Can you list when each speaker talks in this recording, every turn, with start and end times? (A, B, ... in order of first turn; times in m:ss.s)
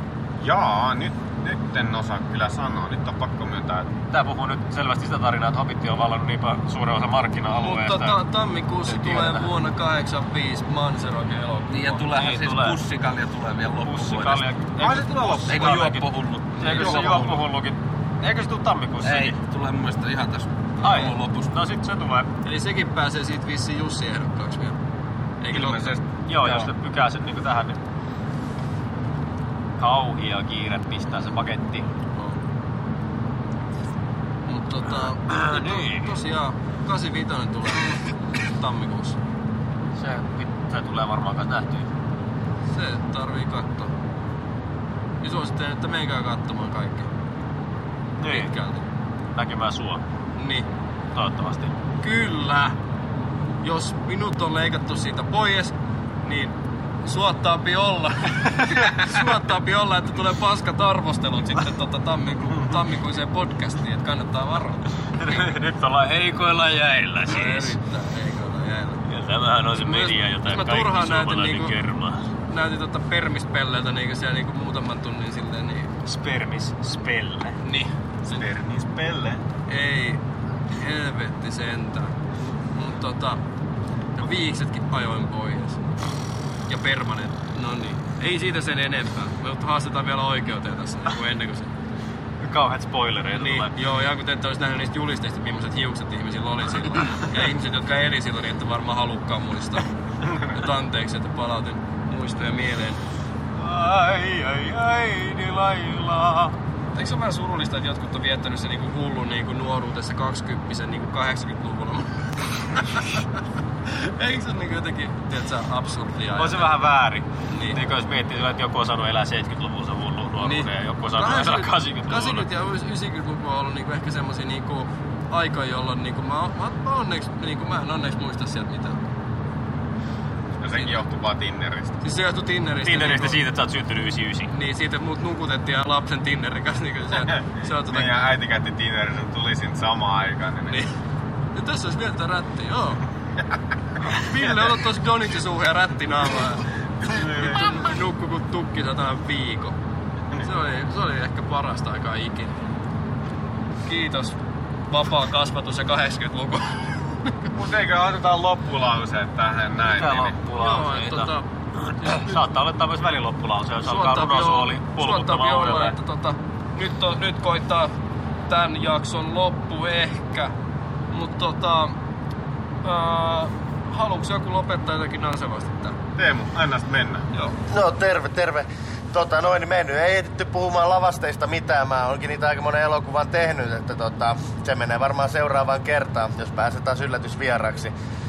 0:00.4-0:03.9 A
0:04.1-0:08.2 B
0:07.5-0:12.1 C
0:08.8-0:09.5 B
0:11.7-0:17.4 D
0:12.1-0:12.8 B
0:13.8-0:19.4 B
0:14.8-0:15.8 A
0:16.6-0:17.3 C
0:19.0-0:21.6 D
0:20.8-0:22.3 B
0:22.4-0:24.8 C
0:25.4-0:25.9 C
0:25.5-0:26.7 A
0:26.3-0:27.8 B
0:29.8-0:31.9 B
0:34.5-0:39.2 C
0:35.2-0:36.1 B
0:40.0-0:41.9 B
0:42.7-0:43.9 C
0:45.2-0:47.1 C
0:48.2-0:48.5 B
0:48.2-0:48.8 C
0:49.3-0:50.0 B
0:50.4-0:50.7 C
0:51.1-0:51.8 B
0:52.0-0:52.8 C
0:53.6-1:05.6 C
1:05.2-1:07.8 B
1:07.2-1:09.0 C
1:09.0-1:12.2 B
1:09.8-1:11.7 C
1:12.5-1:15.9 C
1:16.0-1:17.6 B
1:17.6-1:18.4 C
1:18.3-1:19.4 A
1:19.7-1:20.2 C
1:20.7-1:22.1 C
1:22.7-1:23.4 C
1:24.2-1:25.9 C
1:26.7-1:31.7 C
1:32.4-1:33.8 B
1:33.3-1:39.9 C
1:40.2-1:40.5 A
1:40.5-1:43.0 C
1:43.6-1:46.6 B
1:46.9-1:53.2 C
1:53.9-1:56.7 C
1:56.4-2:02.4 B
1:57.5-1:57.8 C
2:00.4-2:09.0 C
2:10.6-2:12.0 A
2:12.0-2:13.4 C
2:12.8-2:14.5 B
2:14.5-2:18.1 C
2:17.9-2:20.8 A
2:21.5-2:23.0 C
2:24.0-2:29.7 C
2:27.1-2:27.6 A
2:30.4-2:32.6 C
2:33.8-2:37.5 C
2:37.5-2:40.4 A
2:39.8-2:45.9 B
2:40.5-2:41.5 C
2:42.0-2:42.4 C
2:43.8-2:47.9 C
2:48.5-2:50.5 C
2:51.1-2:52.0 C
2:52.8-2:56.0 C
2:56.2-2:57.2 A
2:57.7-3:07.9 E